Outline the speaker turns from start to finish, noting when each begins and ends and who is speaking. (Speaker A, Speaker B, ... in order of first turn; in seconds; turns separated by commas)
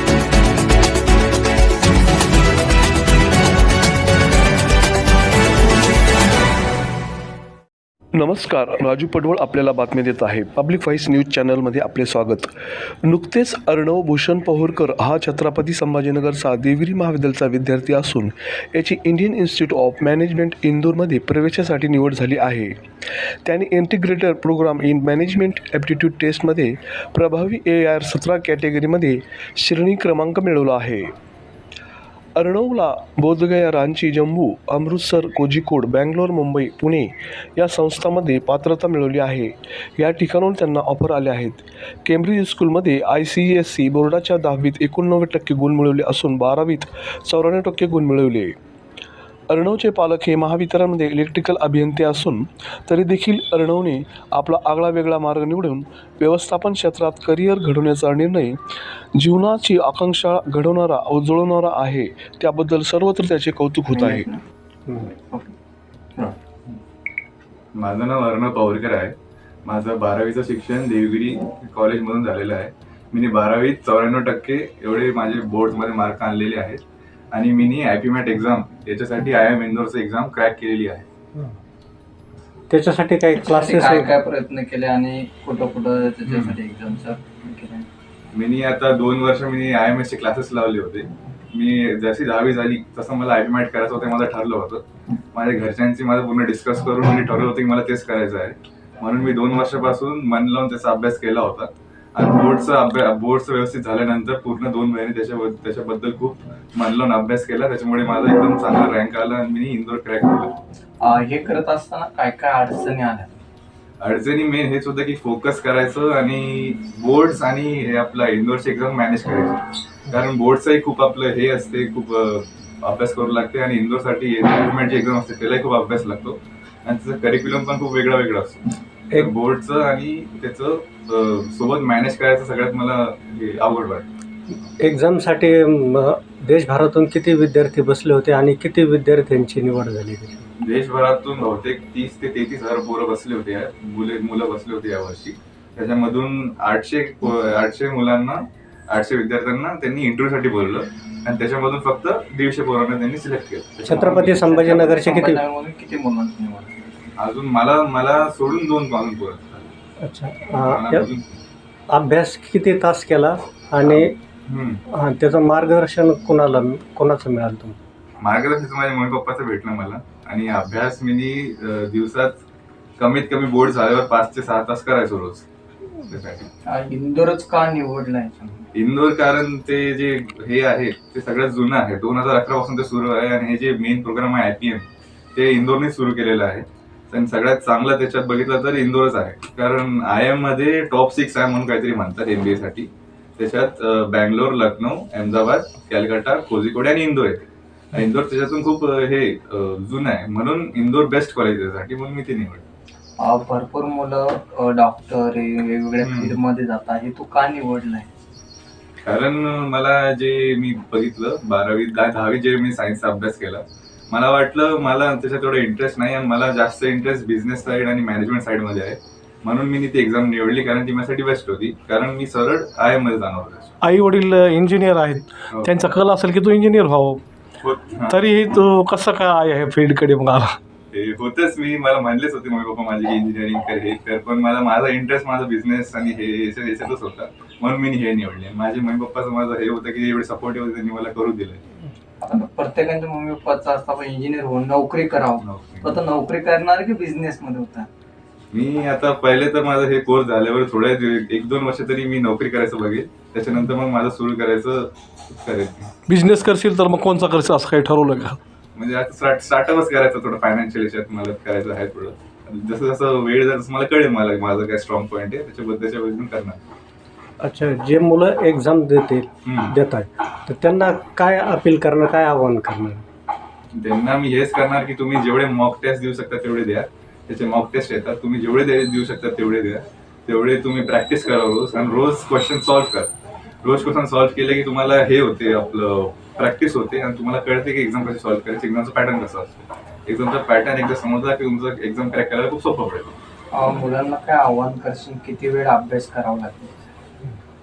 Speaker A: 8.1-12.5, Speaker A: 13.0-22.8, Speaker A: 23.4-31.1, Speaker A: 32.4-48.5, Speaker A: 49.5-58.6, Speaker A: 59.1-64.2, Speaker B: 63.9-64.4, Speaker B: 65.1-65.5, Speaker C: 67.7-81.0, Speaker D: 82.7-84.1, Speaker B: 83.4-87.9, Speaker C: 86.2-86.5, Speaker C: 88.3-94.8, Speaker C: 95.3-110.5, Speaker B: 111.0-113.4, Speaker C: 114.0-134.1, Speaker D: 134.8-140.5, Speaker C: 140.6-154.5, Speaker D: 153.8-155.4, Speaker B: 154.0-156.8, Speaker C: 157.2-159.7, Speaker D: 160.0-161.1, Speaker C: 160.6-161.4, Speaker D: 161.9-164.1, Speaker C: 163.8-164.8, Speaker D: 164.9-167.8, Speaker C: 168.2-172.4, Speaker C: 173.0-175.4, Speaker C: 176.1-176.5, Speaker B: 176.7-178.6, Speaker C: 178.7-202.7, Speaker B: 203.2-208.1, Speaker C: 206.0-206.4, Speaker C: 209.0-223.7, Speaker E: 223.8-227.2, Speaker C: 227.6-228.2, Speaker E: 228.0-230.6, Speaker C: 230.9-241.6, Speaker B: 242.2-247.9, Speaker C: 245.4-246.0, Speaker C: 248.5-255.9, Speaker E: 256.1-258.4, Speaker C: 258.8-266.6, Speaker D: 267.4-273.0, Speaker C: 269.4-269.8, Speaker C: 273.7-283.1, Speaker C: 283.6-293.1, Speaker B: 293.5-296.7